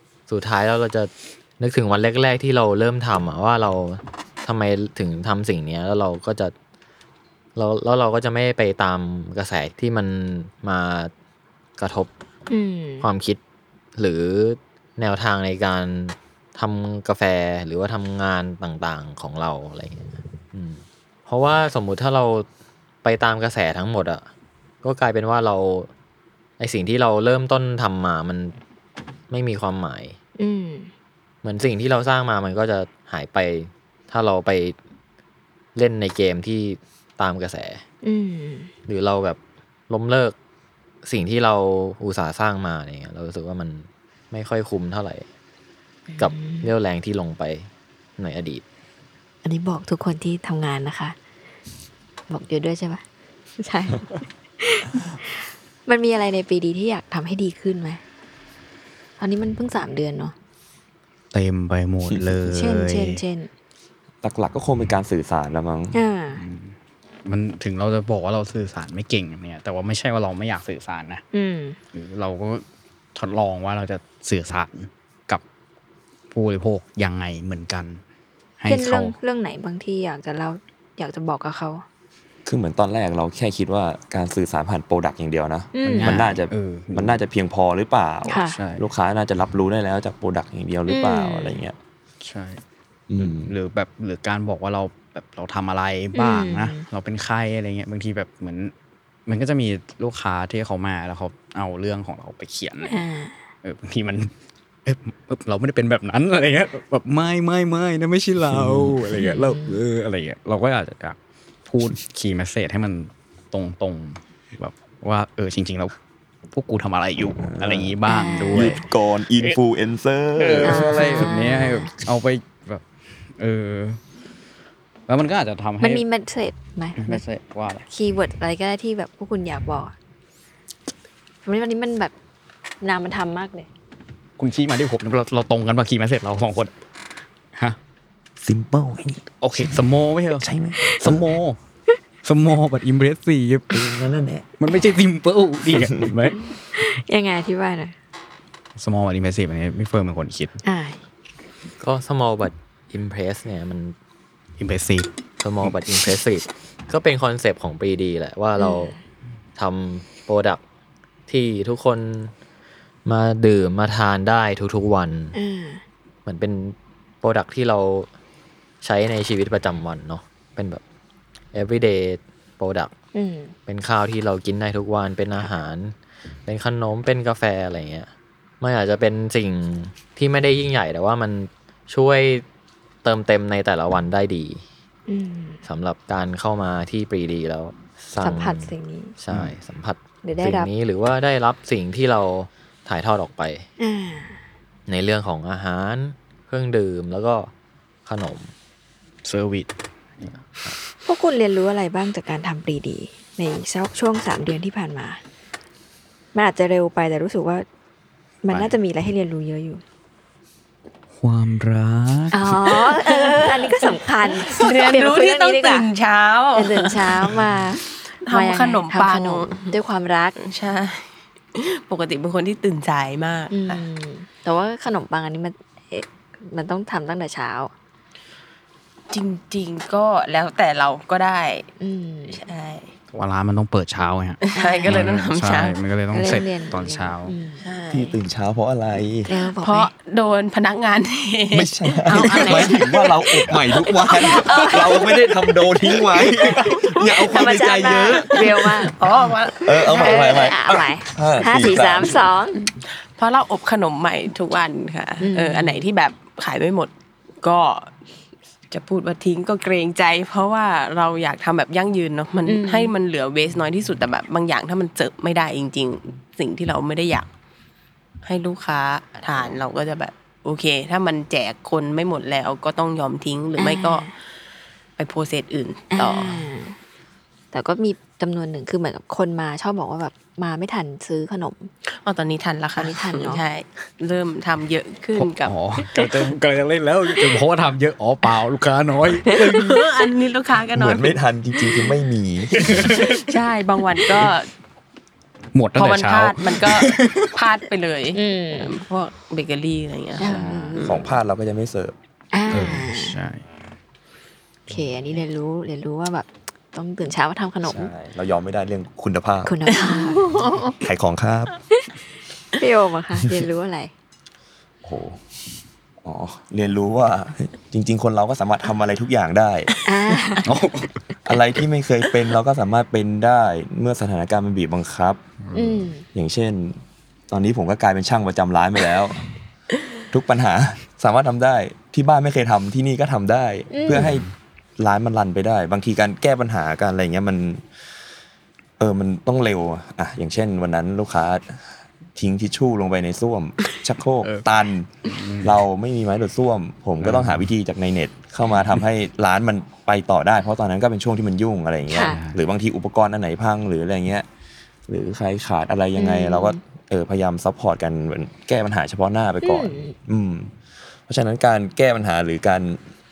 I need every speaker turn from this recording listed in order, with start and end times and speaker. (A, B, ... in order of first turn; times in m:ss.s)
0:00.3-0:06.5 A
0:07.6-0:11.1 A
0:11.8-0:12.1 A
0:12.5-0:13.1 B
0:13.0-0:13.4 A
0:14.0-0:22.5 A
0:23.0-0:24.3 A
0:24.8-0:25.9 A
0:26.6-0:28.6 A
0:29.3-0:30.2 A
0:30.4-0:30.9 B
0:31.4-0:34.8 A
0:35.8-0:37.8 A
0:38.0-0:38.7 B
0:38.9-0:40.4 A
0:41.0-0:45.3 A
0:46.1-0:46.7 B
0:46.2-0:48.6 A
0:49.4-0:51.2 B
0:52.3-0:53.0 B
0:53.6-0:58.0 B
0:59.2-1:00.4 B
1:01.3-1:03.2 C
1:02.5-1:03.5 B
1:04.2-1:06.0 D
1:05.9-1:06.4 B
1:06.4-1:11.2 C
1:11.3-1:11.8 B
1:11.9-1:12.6 C
1:13.2-1:15.4 C
1:16.3-1:18.0 C
1:18.6-1:19.2 C
1:18.7-1:21.8 B
1:22.5-1:31.8 D
1:25.7-1:26.2 B
1:25.8-1:27.2 C
1:28.3-1:28.6 B
1:28.4-1:28.9 C
1:30.9-1:31.6 B
1:32.2-1:32.6 C
1:33.1-1:33.5 D
1:33.2-1:38.7 C
1:36.2-1:36.8 B
1:39.3-1:43.0 C
1:42.8-1:43.4 B
1:43.6-1:44.3 C
1:44.8-1:55.9 C
1:48.4-1:49.0 D
1:49.2-1:49.8 B
1:56.5-1:58.9 C
1:57.4-2:01.2 D
1:58.1-1:58.8 B
2:00.4-2:04.0 C
2:00.6-2:01.9 B
2:05.1-2:06.0 C
2:05.8-2:07.2 B
2:07.0-2:07.9 C
2:07.9-2:09.9 B
2:11.4-2:12.1 B
2:12.8-2:13.7 B
2:14.4-2:16.7 C
2:18.4-2:19.8 D
2:19.4-2:21.6 C
2:20.4-2:21.3 D
2:22.2-2:23.8 C
2:23.7-2:24.5 D
2:24.6-2:26.9 C
2:26.7-2:28.0 B
2:28.8-2:30.6 C
2:30.6-2:31.0 B
2:31.8-2:34.0 A
2:34.6-2:35.1 C
2:35.4-2:39.0 A
2:35.6-2:35.9 C
2:38.6-2:39.0 B
2:39.6-2:40.6 A
2:41.3-2:42.3 A
2:43.0-2:45.3 A
2:45.3-2:45.8 B
2:46.3-2:48.1 A
2:48.8-2:50.8 A
2:51.5-2:52.9 A
2:53.1-2:53.5 B
2:53.7-2:58.1 A
2:58.6-3:02.4 A
3:03.0-3:04.6 A
3:05.1-3:05.6 B
3:05.6-3:13.7 A
3:08.2-3:09.2 B
3:10.2-3:10.7 B
3:13.8-3:14.4 B
3:14.9-3:17.5 A
3:18.1-3:18.5 A
3:19.2-3:20.4 C
3:21.1-3:25.2 B
3:26.3-3:27.7 B
3:28.4-3:29.8 B
3:28.5-3:28.7 C
3:31.2-3:32.9 C
3:32.3-3:35.9 B
3:33.0-3:37.4 E
3:36.6-3:40.4 B
3:38.2-3:39.8 E
3:40.4-3:43.8 E
3:43.5-3:47.7 B
3:49.1-3:51.7 E
3:51.8-3:52.4 B
3:52.3-3:52.9 E
3:53.1-3:57.4 C
3:54.4-3:55.8 E
3:54.6-3:55.1 B
3:56.1-3:57.6 B
3:57.6-3:58.2 E
3:57.9-3:59.3 D
3:59.3-3:59.9 B
3:59.6-4:07.0 E
4:01.5-4:12.2 D
4:02.1-4:02.8 B
4:04.3-4:05.0 B
4:06.6-4:09.0 B
4:08.1-4:10.5 E
4:09.9-4:12.6 B
4:13.2-4:17.9 E
4:15.2-4:15.9 B
4:18.7-4:27.3 E
4:22.5-4:22.9 B
4:28.2-4:34.1 E
4:33.6-4:34.1 B
4:35.0-4:36.4 E
4:35.9-4:36.8 B
4:37.5-4:41.7 B
4:41.9-4:45.5 E
4:42.8-4:43.4 B
4:45.2-4:49.8 C
4:49.4-4:51.2 E
4:50.8-4:53.0 D
4:52.5-4:53.3 C
4:52.9-4:54.5 E
4:55.5-4:57.3 C
4:55.8-5:01.1 E
4:58.1-4:58.7 B
5:00.2-5:01.0 B
5:00.2-5:00.8 C
5:00.8-5:01.9 D
5:02.3-5:03.2 B
5:02.5-5:03.4 C
5:04.7-5:07.9 B
5:07.6-5:09.6 D
5:09.4-5:10.3 B
5:09.8-5:10.8 E
5:10.8-5:11.5 D
5:12.6-5:13.9 B
5:14.8-5:15.2 D
5:16.0-5:19.7 D
5:19.9-5:20.5 B
5:20.1-5:21.0 C
5:21.2-5:25.2 D
5:25.4-5:25.8 C
5:25.6-5:26.0 B
5:26.1-5:29.3 D
5:30.1-5:34.3 D
5:33.7-5:34.1 B
5:33.9-5:34.3 C
5:34.8-5:37.7 D
5:38.8-5:54.3 D
5:45.1-5:45.6 C
5:47.0-5:47.5 C
5:51.9-5:52.2 B
5:52.0-5:52.4 C
5:54.9-6:02.8 D
5:56.0-5:56.6 B
5:59.4-5:59.9 B